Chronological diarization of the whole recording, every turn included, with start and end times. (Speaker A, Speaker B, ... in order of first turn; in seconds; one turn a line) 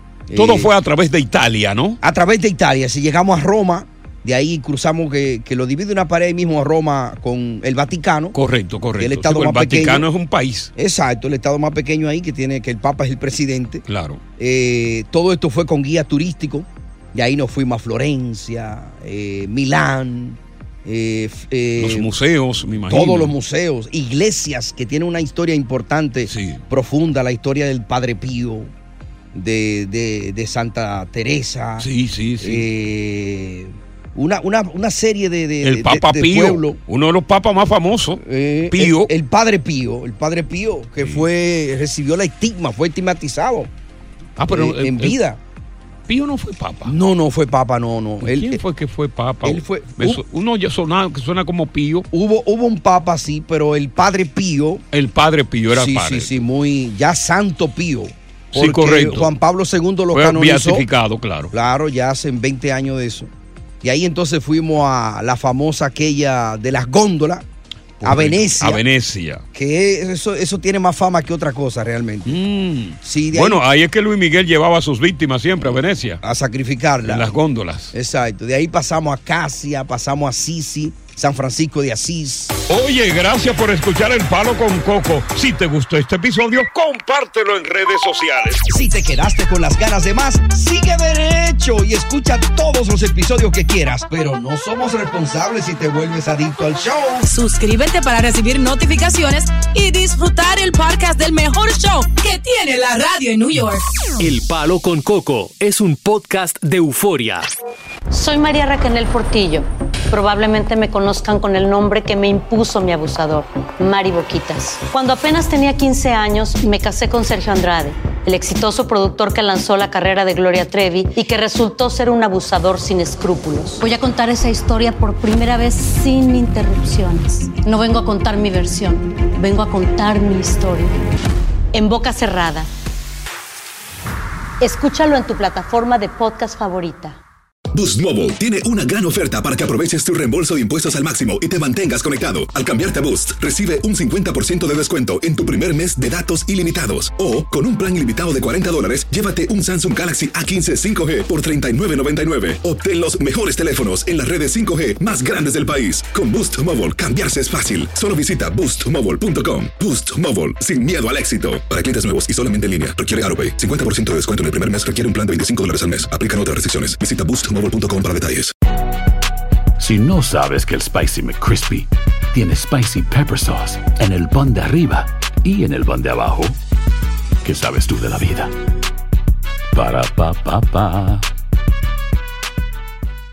Speaker A: 0.3-0.7
Speaker B: 0.3-2.0
Speaker A: 2.0-8.4
Speaker B: 8.3-10.7
Speaker A: 9.0-10.1
Speaker A: 10.8-13.8
Speaker B: 13.9-14.2
Speaker A: 14.4-22.1
Speaker B: 21.8-23.4
Speaker A: 22.9-28.7
Speaker B: 26.3-26.6
Speaker A: 29.3-31.9
Speaker B: 31.8-32.7
Speaker A: 32.4-36.8
Speaker B: 35.6-39.1
Speaker A: 38.2-43.7
Speaker B: 41.0-41.3
Speaker B: 44.4-45.2
Speaker A: 44.5-45.4
Speaker B: 46.1-47.0
Speaker A: 46.9-48.6
Speaker B: 48.2-52.1
Speaker A: 49.4-50.2
Speaker A: 52.1-54.8
Speaker B: 54.9-56.5
Speaker A: 55.7-60.9
Speaker B: 58.5-59.4
Speaker B: 60.1-61.5
Speaker A: 61.5-63.3
Speaker A: 63.8-67.5
Speaker B: 68.0-69.5
Speaker A: 68.0-68.8
Speaker A: 69.5-72.4
Speaker B: 72.3-76.2
Speaker A: 73.0-73.6
Speaker A: 76.2-77.3
Speaker B: 77.0-77.9
Speaker A: 77.9-82.6
Speaker B: 82.7-88.6
Speaker A: 88.7-97.3
Speaker C: 97.3-103.8
Speaker D: 104.2-107.5
Speaker E: 108.1-130.9
Speaker E: 131.7-132.7
Speaker E: 134.6-137.2
Speaker F: 137.7-168.5
Speaker G: 169.8-176.6
Speaker G: 177.4-178.5
Speaker G: 179.7-181.3